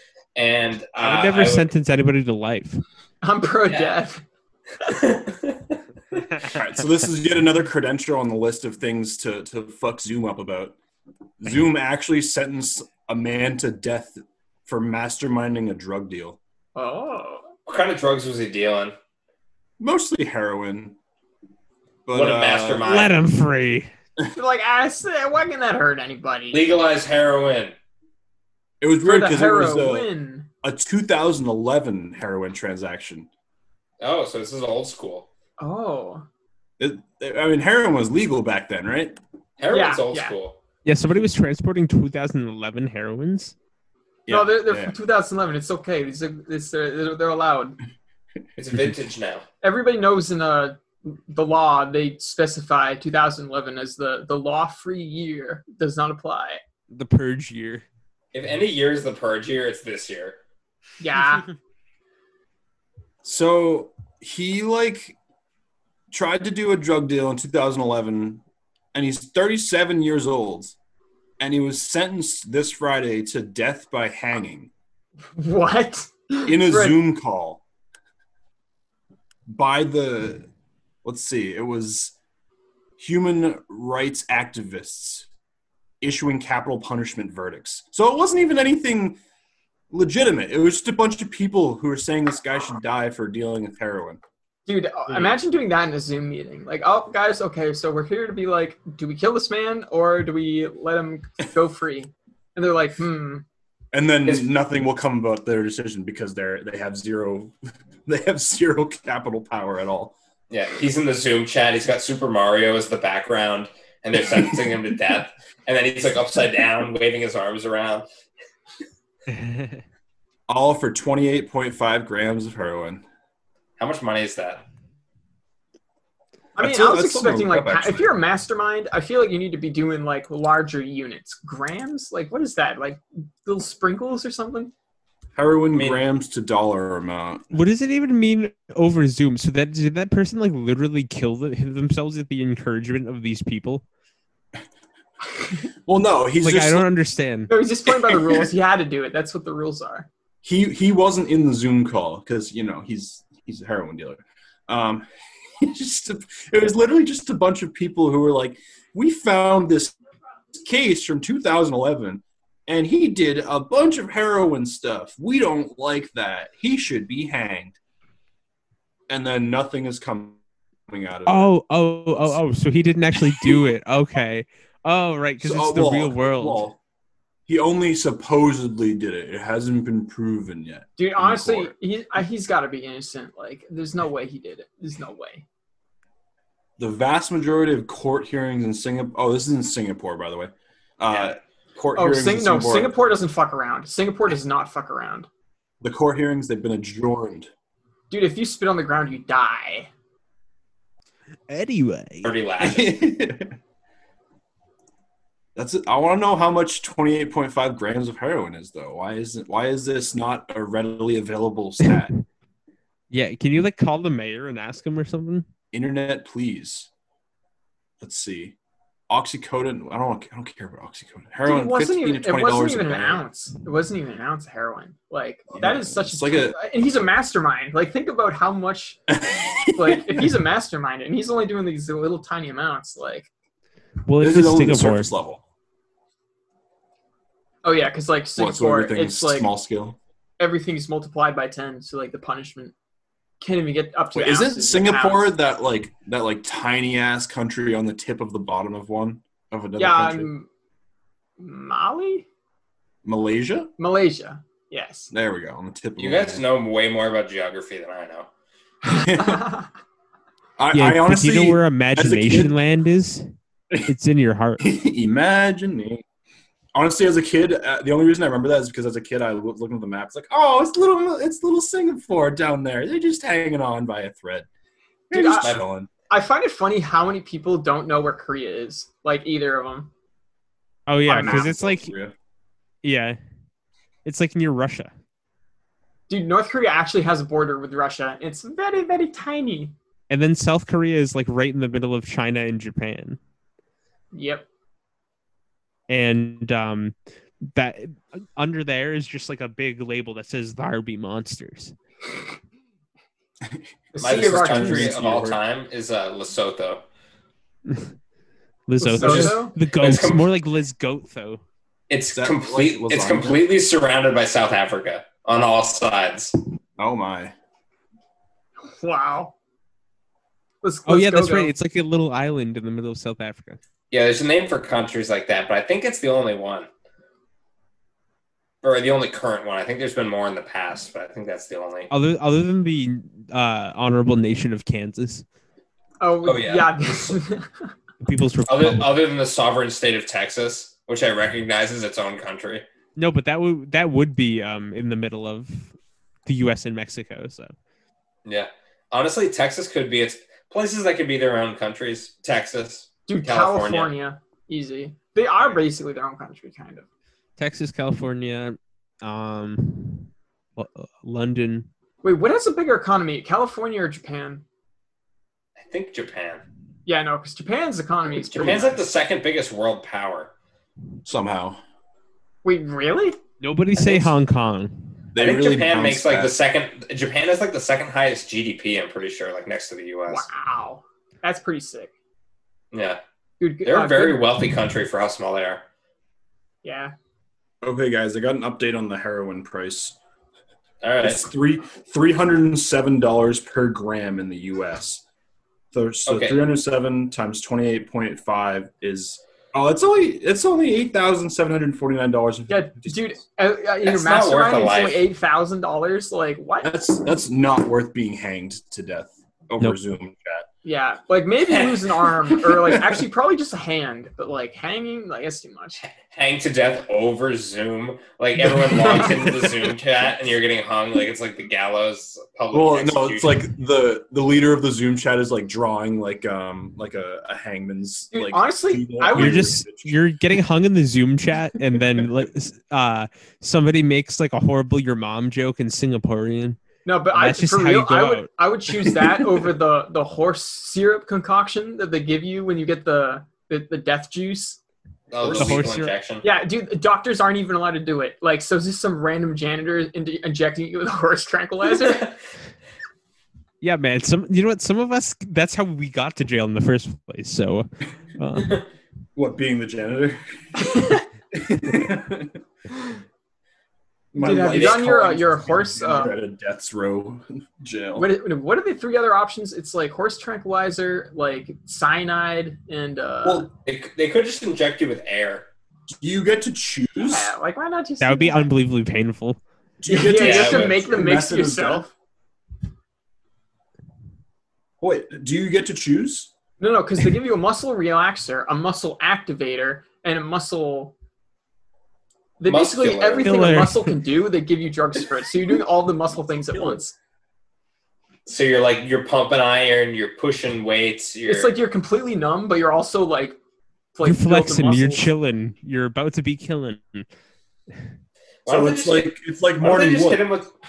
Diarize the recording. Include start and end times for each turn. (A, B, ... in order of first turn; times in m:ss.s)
0:00.4-0:01.7 A
0:01.0-0:02.8 B
0:03.2-0:04.2 C
0:03.7-0:04.0 A
0:04.8-0:05.8 A
0:06.5-0:10.8 D
0:11.4-0:16.4 D
0:16.8-0:17.5 C
0:17.7-0:18.9 A
0:19.8-0:21.0 D
0:22.1-0:23.0 D
0:22.1-0:23.2 A
0:22.8-0:23.9 B
0:24.4-0:26.6 C
0:26.5-0:27.7 A
0:28.8-0:30.1 D
0:29.0-0:30.5 C
0:30.6-0:33.3 D
0:34.0-0:35.3 A
0:35.6-0:36.2 C
0:36.8-0:39.2 D
0:39.6-0:40.6 A
0:39.7-0:40.4 C
0:40.8-0:43.6 B
0:44.3-0:44.9 D
0:44.3-0:47.8 C
0:48.6-0:49.4 A
0:49.6-0:56.6 C
0:56.9-0:57.8 B
0:58.3-1:00.4 A
1:01.0-1:01.5 C
1:03.2-1:05.2 D
1:06.1-1:08.4 D
1:08.9-1:10.8 D
1:11.4-1:14.7 D
1:15.4-1:17.0 C
1:16.5-1:17.6 D
1:19.5-1:20.5 D
1:21.0-1:22.1 D
1:23.0-1:25.3 D
1:26.0-1:29.2 D
1:29.9-1:34.2 D
1:34.7-1:43.4 C
1:43.9-1:47.5 D
1:48.1-1:50.2 D
1:50.5-1:58.1 A
1:59.3-1:59.8 B
2:00.5-2:03.0 D
2:03.8-2:04.6 A
2:06.6-2:14.7 C
2:06.6-2:08.1 D
2:15.4-2:17.5 D
2:15.7-2:16.0 A
2:17.5-2:23.8 B
2:25.9-2:26.9 D
2:26.4-2:27.5 B
2:27.5-2:30.1 C
2:28.1-2:28.4 D
2:30.4-2:35.1 D
2:35.6-2:39.9 D
2:40.5-2:47.8 D
2:49.1-2:51.5 D
2:51.2-2:56.6 B
2:52.1-2:52.4 D
2:55.4-2:56.8 D
2:57.5-3:01.7 D
3:01.0-3:05.4 C
3:06.8-3:12.9 D
3:11.9-3:15.3 C
3:15.8-3:17.5 D
3:18.1-3:19.9 C
3:21.5-3:22.3 B
3:22.2-3:23.0 A
3:22.6-3:23.5 D
3:25.6-3:32.1 D
3:33.1-3:35.5 B
3:35.7-3:36.9 D
3:38.0-3:38.5 D
3:39.1-3:43.2 D
3:41.4-3:49.0 C
3:45.5-3:46.6 D
3:49.1-3:50.3 D
3:49.7-3:53.3 C
3:54.1-3:55.1 B
3:54.2-3:55.4 D
3:57.6-3:59.5 C
3:58.4-4:00.0 D
4:00.4-4:02.7 C
4:03.4-4:05.3 C
4:04.1-4:10.3 D
4:09.8-4:10.5 C
4:11.4-4:12.2 C
4:13.0-4:13.7 D
4:13.8-4:15.1 C
4:15.1-4:16.4 D
4:16.0-4:18.3 A
4:18.9-4:19.5 D
4:18.9-4:19.7 C
4:20.6-4:22.6 D
4:20.7-4:23.2 B
4:23.9-4:24.7 B
4:24.6-4:26.0 D
4:26.8-4:34.5 D
4:35.1-4:35.9 D
4:35.1-4:35.6 C
4:36.1-4:39.9 C
4:40.9-4:41.9 B
4:41.1-4:41.5 C
4:41.1-4:42.1 D
4:42.8-4:43.2 B
4:44.0-4:44.9 B
4:46.1-4:49.7 C
4:50.1-4:53.2 B
4:54.1-4:54.4 C
4:55.9-5:01.8 B
5:03.5-5:05.4 D
5:03.9-5:04.9 C
5:04.0-5:06.8 A
5:08.7-5:11.4 B
5:08.8-5:09.5 C
5:09.0-5:10.3 A
5:11.9-5:16.3 A
5:12.2-5:13.5 D
5:16.8-5:17.3 D
5:18.7-5:19.3 C
5:20.6-5:21.5 C
5:20.9-5:23.6 B
5:23.9-5:26.7 A
5:28.6-5:31.9 A
5:31.9-5:35.2 B
5:36.0-5:37.7 C
5:36.2-5:37.2 A
5:38.0-5:38.9 B
5:38.5-5:42.6 A
5:43.0-5:45.7 B
5:46.2-5:47.5 B
5:48.2-5:53.9 A
5:53.1-5:56.9 C
5:57.4-6:01.7 B
6:02.0-6:04.4 C
6:05.6-6:06.4 A
6:06.9-6:08.7 C
6:08.3-6:08.8 D
6:08.3-6:10.3 A
6:11.0-6:11.6 D
6:12.4-6:13.2 C
6:13.4-6:15.0 B
6:15.1-6:16.4 D
6:15.2-6:20.3 A
6:20.1-6:21.9 C
6:22.7-6:23.0 A
6:23.4-6:24.2 C
6:23.6-6:25.6 A
6:26.6-6:26.9 C
6:27.6-6:30.0 D
6:30.8-6:31.2 A
6:31.0-6:35.0 D
6:35.7-6:43.2 D
6:36.1-6:36.5 A
6:42.5-6:46.7 C
6:43.8-6:45.1 A
6:46.6-6:50.5 D
6:50.6-6:55.8 C
6:51.5-6:51.8 A
6:52.5-6:53.0 D
6:55.8-7:03.5 A
6:58.4-6:59.6 D
7:02.5-7:10.0 D
7:08.1-7:09.5 C
7:09.1-7:16.6 B
7:11.7-7:12.0 D
7:16.8-7:24.6 C
7:17.1-7:18.3 B
7:25.1-7:26.2 A
7:25.2-7:25.7 D
7:25.3-7:25.9 B
7:26.2-7:32.1 C
7:33.6-7:38.6 B
7:39.2-7:40.8 D
7:41.3-7:42.4 D
7:44.1-7:48.1 D
7:44.2-7:46.2 C
7:44.5-7:44.8 A
7:48.0-7:53.5 C
7:53.2-7:53.5 D
7:53.6-7:55.5 A
7:55.9-7:57.3 D
7:57.0-7:58.5 C
7:58.0-7:59.4 B
7:59.8-8:01.9 D
7:59.9-8:01.9 C
8:00.2-8:00.7 A
8:04.8-8:06.3 D
8:06.6-8:10.9 C
8:12.4-8:16.9 C
8:12.4-8:13.4 A
8:13.2-8:14.0 B
8:16.5-8:16.8 D
8:18.2-8:21.5 A
8:21.2-8:23.4 C
8:23.9-8:25.1 C
8:24.0-8:27.1 B
8:28.4-8:30.5 A
8:28.5-8:30.3 D